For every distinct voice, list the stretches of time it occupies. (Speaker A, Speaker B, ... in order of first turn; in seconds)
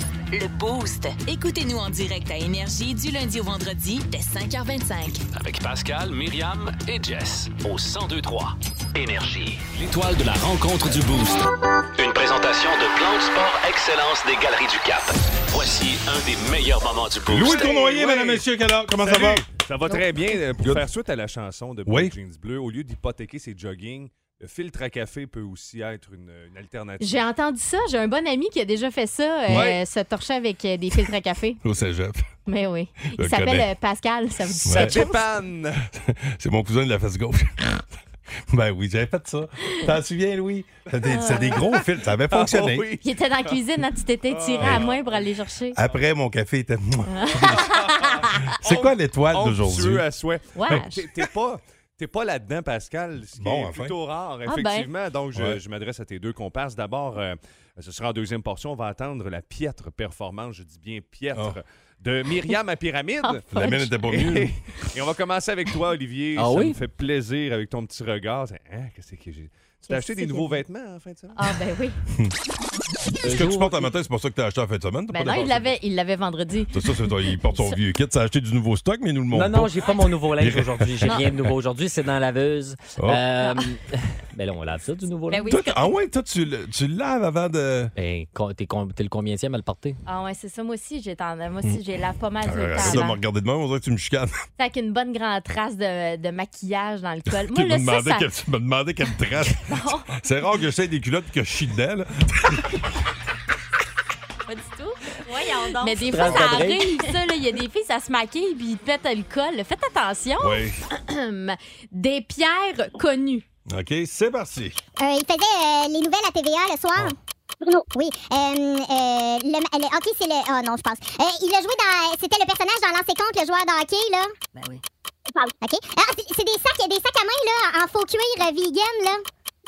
Speaker A: 0.3-5.2
Speaker B: 5.3-17.6
Speaker C: 17.3-19.5, 21.9-22.1, 31.6-32.2, 33.2-33.7, 34.6-35.1, 36.0-37.8, 38.5-42.9, 44.6-45.0, 45.8-47.7, 48.5-50.1, 53.4-54.0, 63.5-64.6, 73.2-75.7, 76.7-79.8, 80.4-81.4, 83.0-83.2, 85.5-87.9, 92.4-94.3, 97.5-102.8, 110.4-110.8, 113.7-114.8
Speaker D: 17.4-18.4, 19.0-27.2, 29.5-29.8, 34.6-35.9, 41.2-43.6, 44.3-45.3, 47.5-48.1, 48.6-71.5
Speaker E: 27.0-31.6, 32.5-35.3, 41.0-41.6, 43.0-45.8, 47.1-48.4, 50.5-51.0, 54.5-54.9, 63.2-63.9, 69.9-70.6, 71.3-72.0, 75.1-77.8, 85.3-85.9, 90.1-93.2, 94.6-98.3, 99.6-100.2, 104.5-113.4
Speaker F: 66.4-66.8, 73.2-73.9, 79.3-85.5, 88.0-90.0, 105.8-107.1
Speaker G: 115.0-117.2, 117.9-124.3, 125.6-129.2